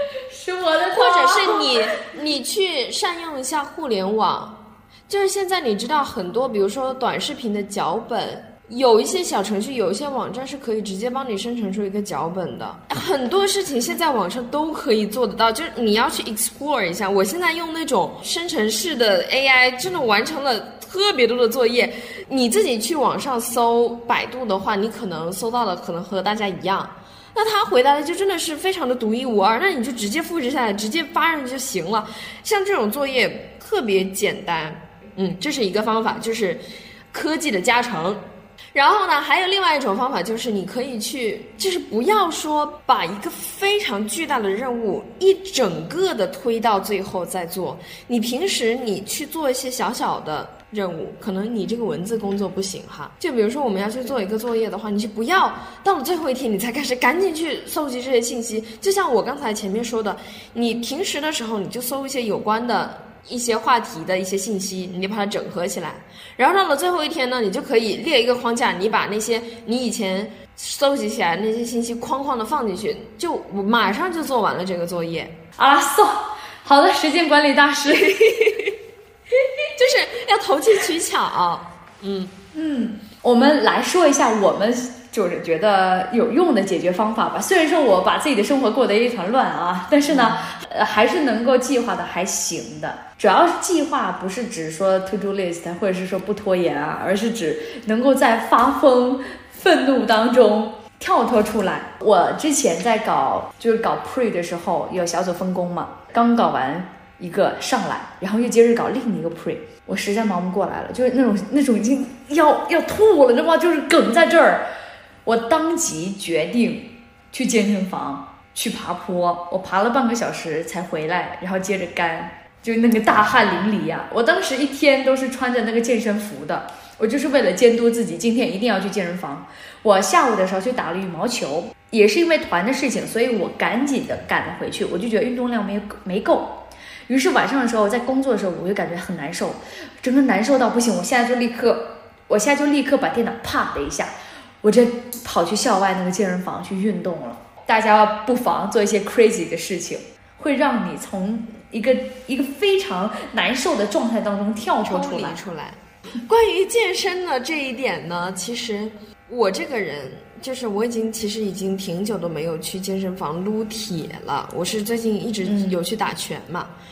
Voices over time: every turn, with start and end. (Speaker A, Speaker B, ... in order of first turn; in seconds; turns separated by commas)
Speaker A: 0.3-2.0, Speaker B: 0.9-75.4, Speaker A: 75.6-78.2, Speaker B: 77.8-78.8, Speaker B: 79.8-82.3, Speaker A: 82.5-114.7, Speaker B: 90.0-90.5, Speaker A: 115.2-155.4, Speaker B: 154.8-166.7, Speaker A: 165.4-165.8